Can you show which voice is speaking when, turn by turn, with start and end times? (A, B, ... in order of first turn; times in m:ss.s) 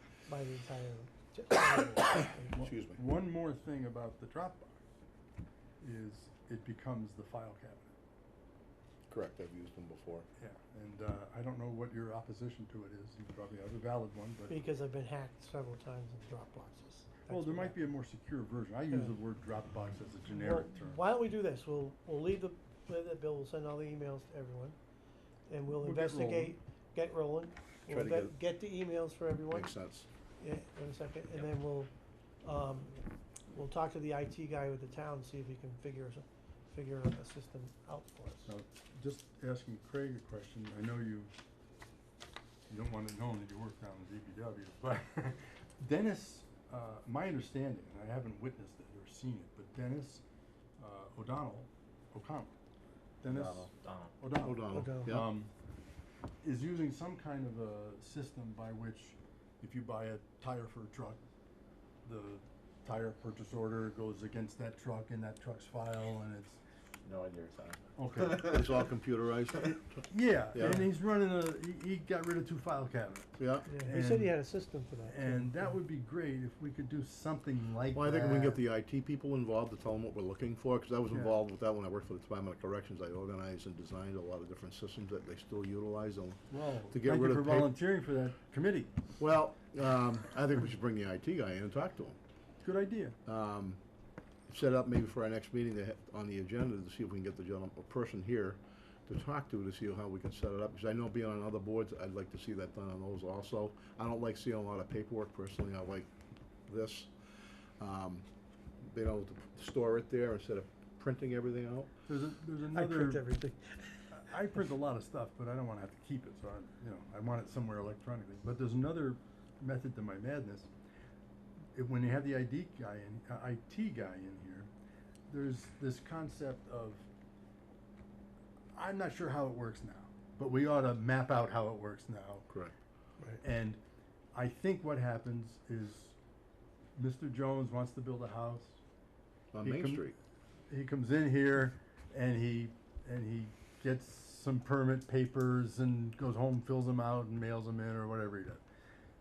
0:00.3-0:02.6 A
0:02.5-0:03.0 B
0:02.6-0:04.8 C
0:05.8-0:07.9 C
0:09.1-0:10.3 B
0:10.4-0:14.6 C
0:14.5-0:17.8 A
0:17.3-0:21.0 C
0:20.3-0:24.8 A
0:25.5-0:29.7 A
0:25.7-0:26.6 C
0:27.9-0:28.4 B
0:29.5-0:30.1 B
0:30.4-0:31.9 A
0:32.4-0:38.5 A
0:38.5-0:41.3 C
0:42.7-0:50.2 C
0:50.8-0:52.5 C
0:53.2-0:55.5 C
0:53.3-0:54.1 D
0:54.4-0:55.3 B
0:54.7-0:55.2 A
0:56.4-1:01.2 C
1:02.0-1:06.6 C
1:07.0-1:08.7 D
1:08.0-1:08.6 C
1:08.3-1:10.9 B
1:10.1-1:14.4 C
1:13.4-1:13.7 B
1:13.7-1:15.7 A
1:15.0-1:18.6 C
1:17.9-1:27.7 B
1:21.1-1:21.4 C
1:26.5-1:29.0 C
1:29.2-1:32.2 B
1:32.6-1:33.2 C
1:33.3-1:33.8 B
1:34.5-1:46.1 B
1:46.7-1:47.1 B
1:47.8-1:48.3 B
1:48.8-1:51.9 B
1:52.1-1:53.2 C
1:52.7-1:54.1 A
1:54.1-2:00.7 C
2:01.7-2:04.7 C
2:05.3-2:07.1 C
2:08.7-2:12.5 C
2:13.4-2:13.8 C
2:14.3-2:16.2 C
2:17.0-2:18.8 C
2:19.5-2:20.2 B
2:19.6-2:20.1 C
2:20.7-2:28.6 C